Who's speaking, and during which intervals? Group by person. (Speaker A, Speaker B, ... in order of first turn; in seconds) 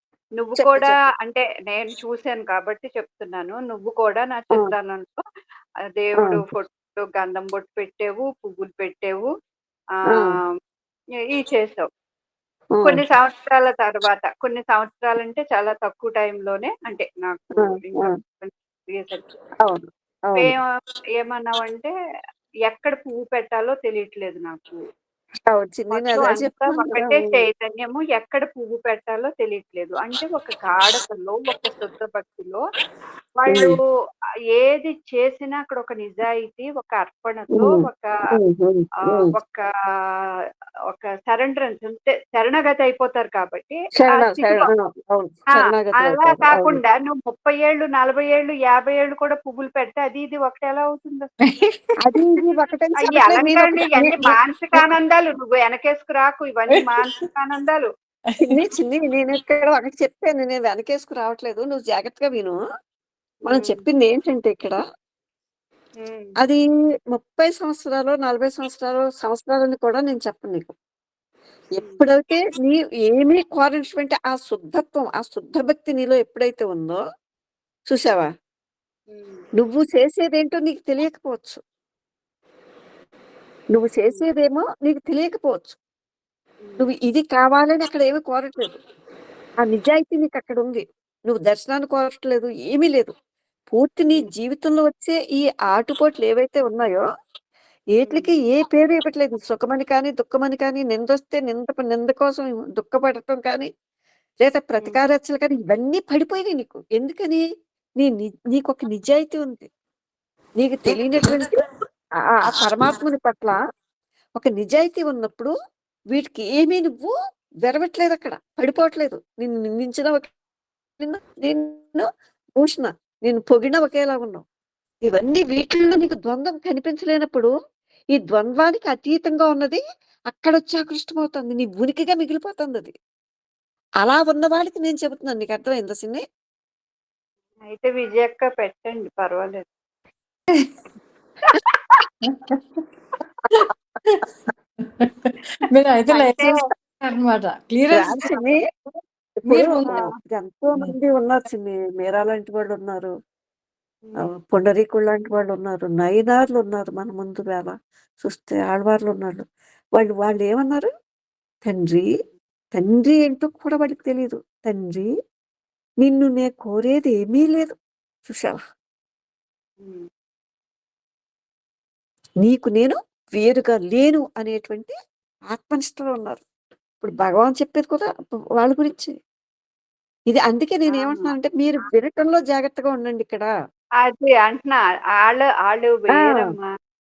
Speaker A: 0.4-5.2, 6.0-9.3, 10.1-10.4, 11.3-11.9, 12.8-19.3, 20.4-20.7, 21.2-21.9, 22.7-24.8, 25.9-32.6, 33.4-33.8, 34.5-38.1, 39.1-39.6, 40.9-44.7, 46.0-51.3, 53.0-57.9, 63.5-63.8, 66.0-66.3, 79.1-79.4, 86.6-86.9, 98.0-98.3, 137.7-139.6, 141.4-142.0, 146.1-146.5, 154.0-154.3, 169.8-170.1, 180.9-181.3, 184.0-186.7
Speaker B: 0.6-1.0, 12.8-13.0, 17.6-18.1, 19.6-20.5, 25.5-27.4, 33.5-33.8, 37.5-39.3, 44.0-46.8, 52.0-54.8, 58.4-62.6, 63.5-64.8, 66.4-70.7, 71.8-77.0, 77.9-78.3, 79.6-81.6, 83.7-85.8, 86.8-88.7, 89.6-93.1, 93.7-97.0, 98.0-103.7, 104.4-107.4, 108.0-109.7, 110.6-111.5, 112.5-113.6, 114.4-115.5, 116.1-117.1, 117.7-120.3, 121.0-122.1, 122.6-124.4, 125.0-127.5, 128.2-129.8, 130.3-132.9, 134.0-136.2, 147.9-148.6, 149.4-153.1, 154.2-159.4, 160.0-160.9, 161.7-162.1, 162.7-165.1, 166.0-167.7, 168.2-168.6, 172.4-174.9, 175.5-176.4, 177.0-179.1, 180.3-183.5, 186.1-186.5
Speaker C: 51.5-51.7, 142.3-142.6, 143.6-144.2, 145.0-148.2, 149.5-149.9